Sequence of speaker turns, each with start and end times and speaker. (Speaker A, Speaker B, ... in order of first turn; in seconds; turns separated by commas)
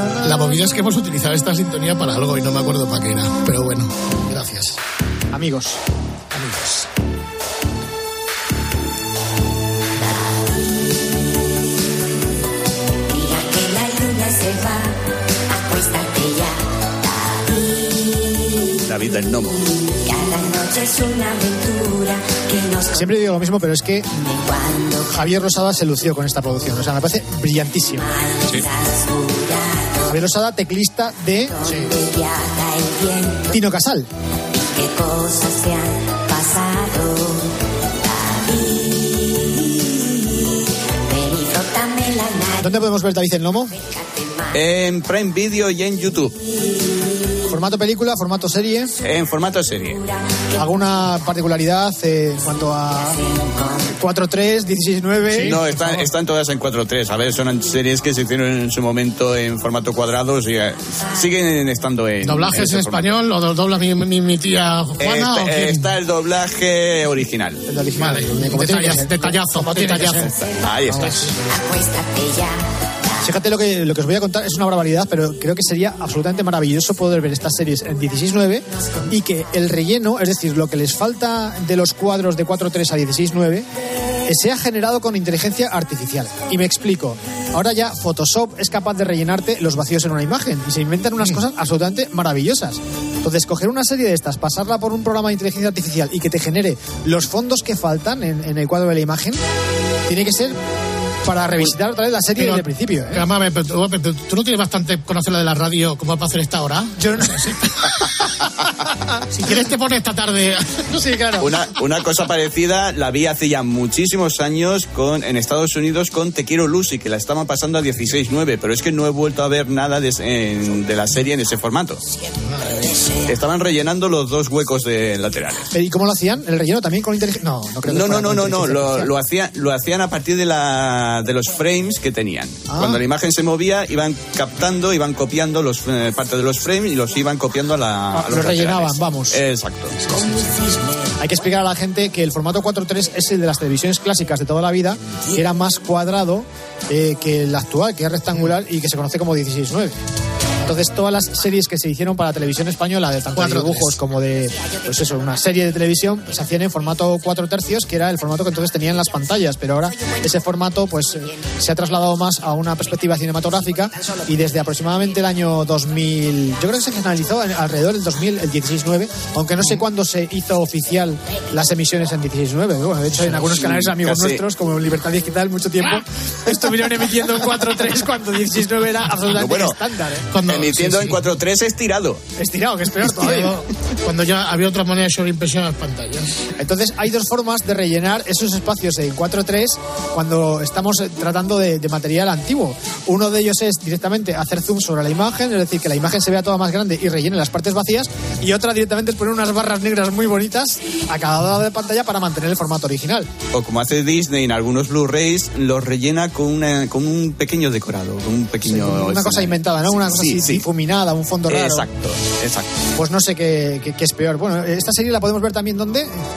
Speaker A: 0.2-4.8, Speaker B: 5.3-5.8, Speaker A: 6.3-6.8, Speaker C: 10.4-11.1, Speaker C: 13.1-15.0, Speaker C: 15.5-18.8, Speaker D: 18.8-19.5, Speaker C: 19.4-23.1, Speaker B: 22.9-24.1, Speaker C: 24.1-25.1, Speaker B: 25.1-28.1, Speaker C: 28.0-30.2, Speaker B: 30.1-31.5, Speaker C: 31.6-33.6, Speaker A: 31.6-31.9, Speaker B: 33.5-34.1, Speaker C: 34.5-42.7, Speaker B: 42.6-43.7, Speaker C: 43.7-44.6, Speaker D: 44.5-46.4, Speaker C: 46.6-47.4, Speaker B: 47.5-48.9, Speaker D: 49.0-50.0, Speaker C: 49.9-50.8, Speaker B: 50.6-53.2, Speaker C: 52.9-54.0, Speaker B: 54.0-55.6, Speaker A: 55.3-56.1, Speaker D: 55.4-63.1, Speaker C: 61.0-61.3, Speaker A: 62.2-65.9, Speaker D: 65.0-67.6, Speaker B: 67.7-70.3, Speaker A: 68.0-70.3, Speaker D: 70.1-71.3, Speaker C: 70.4-70.7, Speaker B: 70.9-71.2, Speaker A: 70.9-71.3, Speaker C: 71.5-72.6, Speaker B: 73.2-83.7, Speaker B: 84.2-99.4, Speaker B: 100.1-100.6, Speaker B: 101.2-103.2, Speaker A: 102.4-107.7, Speaker B: 107.0-107.5, Speaker A: 109.3-111.0, Speaker B: 110.9-111.5, Speaker D: 111.4-122.0, Speaker A: 122.5-122.9, Speaker D: 123.2-125.7, Speaker B: 125.7-129.1, Speaker D: 127.9-140.0, Speaker B: 132.7-133.0, Speaker B: 138.1-139.4, Speaker C: 140.1-141.1, Speaker B: 141.2-150.0, Speaker B: 150.6-180.3, Speaker A: 153.3-153.9, Speaker D: 173.5-174.4, Speaker D: 179.3-179.8, Speaker A: 180.3-181.2, Speaker D: 180.4-182.2, Speaker B: 182.4-183.6, Speaker A: 183.2-186.3, Speaker B: 186.6-203.3, Speaker D: 203.5-210.6, Speaker B: 208.6-211.9, Speaker D: 211.5-212.7, Speaker B: 213.0-216.1